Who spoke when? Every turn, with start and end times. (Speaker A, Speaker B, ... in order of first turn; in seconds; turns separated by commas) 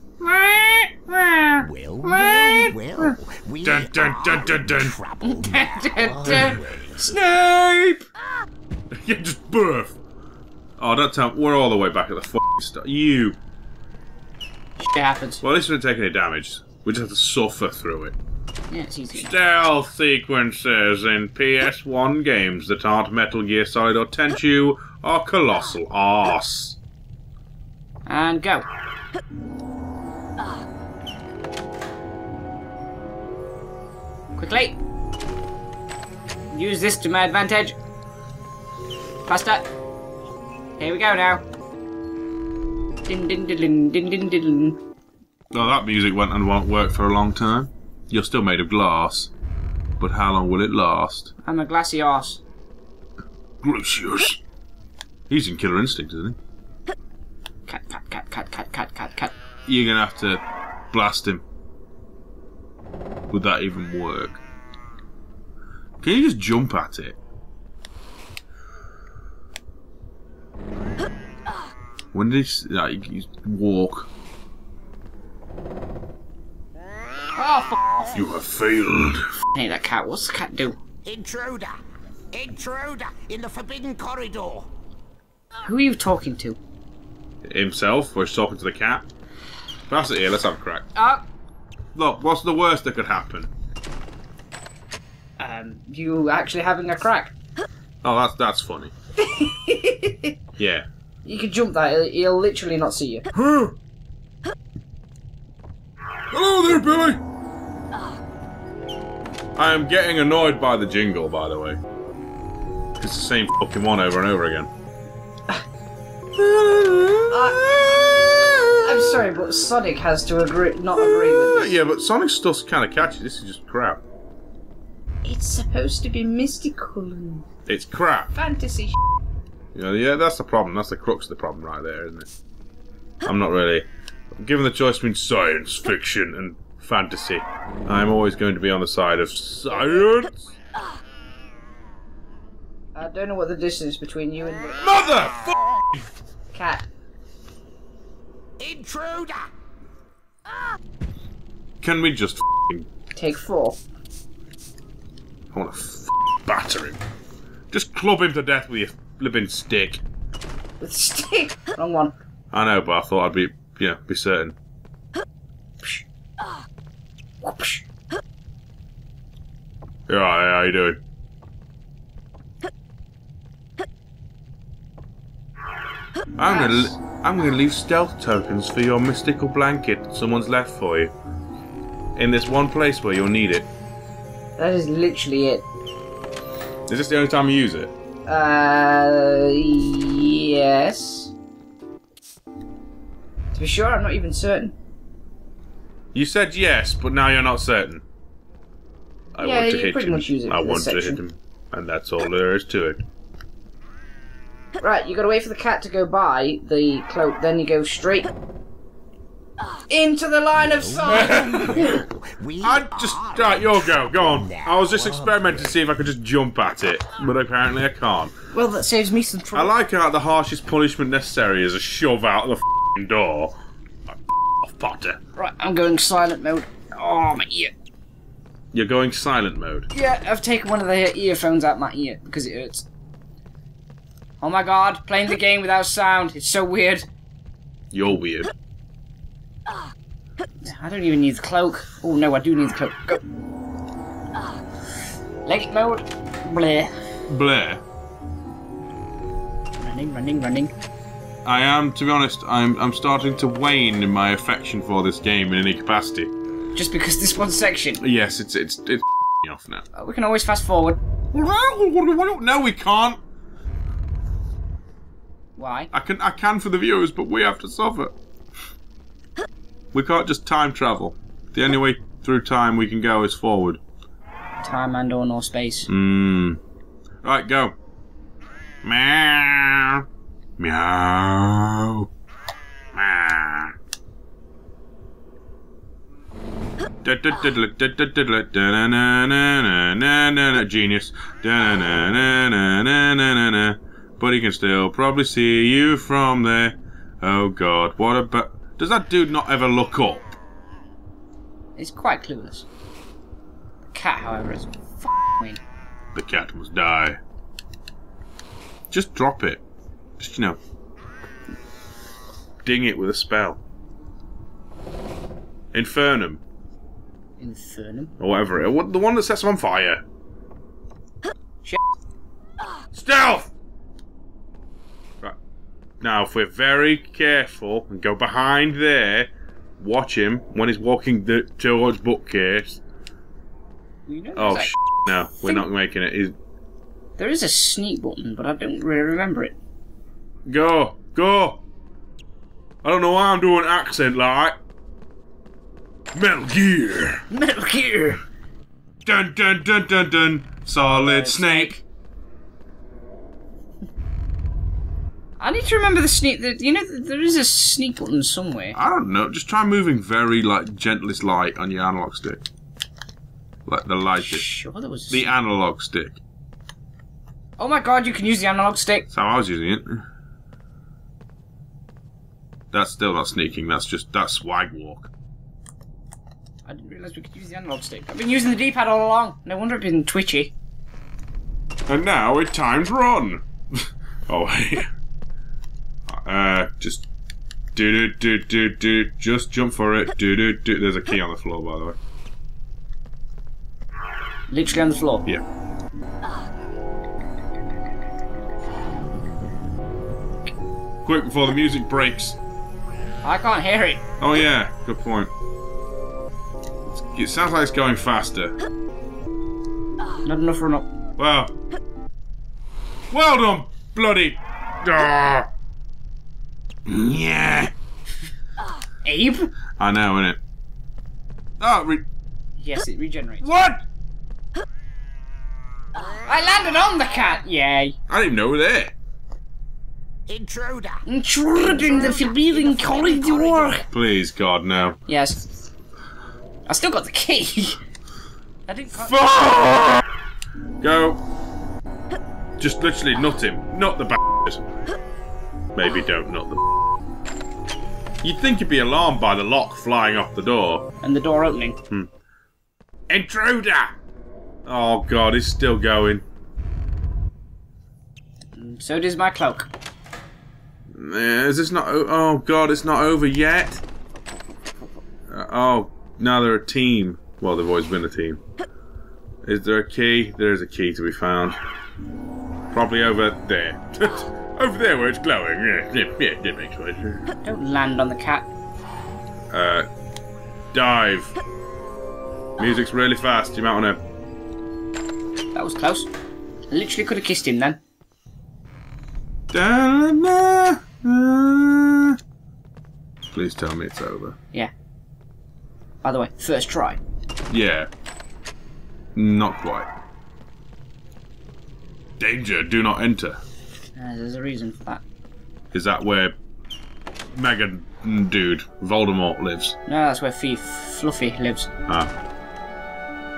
Speaker A: 0.2-4.9, Speaker B: 1.6-7.2, Speaker C: 5.2-6.6, Speaker A: 6.2-8.0, Speaker A: 9.0-9.9, Speaker A: 10.8-13.4, Speaker C: 14.8-15.4, Speaker A: 15.4-18.1, Speaker C: 18.7-19.3, Speaker A: 19.1-26.8, Speaker C: 28.1-28.6, Speaker C: 34.4-34.8, Speaker C: 36.5-37.8, Speaker C: 39.2-39.7, Speaker C: 40.8-41.4, Speaker C: 43.1-44.8, Speaker A: 45.5-49.3, Speaker A: 50.0-51.3, Speaker C: 51.4-52.4, Speaker A: 53.6-54.4, Speaker A: 55.3-56.4, Speaker C: 57.7-59.3, Speaker A: 59.6-61.4, Speaker A: 63.3-64.4, Speaker A: 66.0-67.2, Speaker A: 72.1-74.1, Speaker C: 77.3-78.1, Speaker A: 78.1-79.3, Speaker C: 79.5-80.8, Speaker B: 81.0-81.8, Speaker B: 82.3-84.7, Speaker C: 85.6-86.6, Speaker A: 87.4-89.1, Speaker A: 89.9-90.9, Speaker C: 91.0-91.2, Speaker A: 91.9-93.5, Speaker C: 95.4-97.3, Speaker A: 98.0-98.9, Speaker C: 99.2-100.3, Speaker A: 100.6-100.8, Speaker C: 101.2-103.2, Speaker A: 103.3-103.7, Speaker A: 106.3-107.2, Speaker A: 109.5-111.8, Speaker A: 113.0-114.7, Speaker A: 116.4-119.1, Speaker C: 117.3-121.7, Speaker A: 121.0-124.0, Speaker C: 125.2-127.5, Speaker A: 127.7-128.3, Speaker C: 128.3-129.0, Speaker A: 129.7-132.3, Speaker A: 133.2-140.5, Speaker C: 142.9-144.8, Speaker A: 144.8-145.6, Speaker C: 146.5-146.8, Speaker B: 148.6-149.5, Speaker A: 151.8-152.9, Speaker C: 153.1-153.8, Speaker A: 155.5-157.0, Speaker A: 157.7-160.0, Speaker C: 160.8-162.1, Speaker A: 162.5-164.5, Speaker C: 167.4-167.8, Speaker A: 170.1-171.0, Speaker A: 176.4-181.1, Speaker C: 176.5-176.9, Speaker A: 182.2-183.7, Speaker C: 184.6-185.6, Speaker A: 186.9-187.9, Speaker C: 188.2-191.3, Speaker C: 193.5-194.7, Speaker A: 196.1-198.0, Speaker A: 199.3-203.0, Speaker C: 199.4-201.2, Speaker C: 204.8-208.3, Speaker C: 209.9-212.0, Speaker B: 210.7-215.8, Speaker A: 211.0-211.9, Speaker A: 212.6-218.3, Speaker C: 218.5-219.7, Speaker A: 219.5-223.6, Speaker A: 224.1-225.2, Speaker C: 225.4-227.7, Speaker A: 228.7-229.9, Speaker C: 229.9-232.8, Speaker C: 234.4-237.1, Speaker A: 237.9-238.5, Speaker C: 240.6-243.2, Speaker C: 245.4-246.9, Speaker A: 247.3-247.8, Speaker C: 249.8-250.7, Speaker A: 251.4-256.3, Speaker C: 256.7-258.0, Speaker A: 258.0-259.8, Speaker C: 259.9-261.0, Speaker A: 261.3-263.2, Speaker C: 265.6-265.9, Speaker A: 265.9-268.1, Speaker A: 269.9-273.8, Speaker C: 274.6-275.9, Speaker A: 275.9-276.6, Speaker A: 277.2-277.7, Speaker A: 278.8-280.0, Speaker A: 280.6-282.1, Speaker A: 282.9-283.7, Speaker A: 287.0-300.3, Speaker C: 301.8-302.6, Speaker C: 303.9-305.6, Speaker A: 306.1-307.2, Speaker A: 308.9-309.6, Speaker A: 310.2-310.6, Speaker A: 312.6-313.6, Speaker A: 315.7-316.4, Speaker C: 317.4-318.1, Speaker A: 318.2-320.0, Speaker A: 322.9-323.5, Speaker A: 326.0-332.8, Speaker C: 334.1-334.7, Speaker A: 334.4-336.3, Speaker C: 337.2-339.6, Speaker A: 340.4-341.6, Speaker A: 342.8-344.6, Speaker A: 346.1-347.2, Speaker C: 347.3-348.2, Speaker A: 349.0-351.8, Speaker C: 350.8-351.8, Speaker C: 355.4-358.8, Speaker A: 358.7-362.4, Speaker A: 363.6-364.4, Speaker C: 364.2-365.3, Speaker A: 365.1-366.2, Speaker C: 367.6-369.1, Speaker A: 369.1-370.0, Speaker A: 372.7-375.1, Speaker C: 376.6-380.5, Speaker A: 381.9-384.9, Speaker A: 386.1-387.1, Speaker A: 387.7-392.0, Speaker C: 394.5-395.2, Speaker A: 401.0-402.4, Speaker C: 403.2-404.0, Speaker A: 404.2-405.3, Speaker A: 406.9-408.5, Speaker C: 410.2-410.9, Speaker A: 411.2-411.5, Speaker A: 413.1-415.5, Speaker A: 416.9-417.7, Speaker C: 419.0-419.5, Speaker A: 419.8-420.4, Speaker A: 421.6-422.0, Speaker C: 422.6-423.5, Speaker A: 423.4-423.8, Speaker C: 426.2-427.9, Speaker A: 428.1-428.9, Speaker B: 430.3-431.0, Speaker C: 431.1-433.8, Speaker B: 431.7-433.8, Speaker A: 433.9-435.0, Speaker C: 435.1-435.4, Speaker C: 436.7-437.8, Speaker C: 438.7-439.2, Speaker A: 439.0-440.0, Speaker A: 440.8-441.2, Speaker A: 442.6-444.7, Speaker A: 445.7-446.6, Speaker A: 448.2-450.9, Speaker C: 451.0-451.8, Speaker A: 453.1-453.9, Speaker A: 454.6-456.2, Speaker C: 458.6-459.7, Speaker A: 460.9-463.8, Speaker A: 465.3-468.4, Speaker A: 469.4-471.6, Speaker A: 472.7-477.3, Speaker C: 477.4-478.5, Speaker A: 479.5-479.9, Speaker A: 480.7-481.3, Speaker A: 482.6-484.0, Speaker C: 485.5-486.1, Speaker C: 486.7-487.8, Speaker A: 489.5-492.2, Speaker A: 493.3-494.4, Speaker C: 496.0-497.0, Speaker A: 497.5-497.9, Speaker A: 499.1-499.9, Speaker A: 502.2-503.4, Speaker C: 503.9-505.0, Speaker A: 505.7-506.3, Speaker A: 507.3-509.8, Speaker C: 509.9-511.7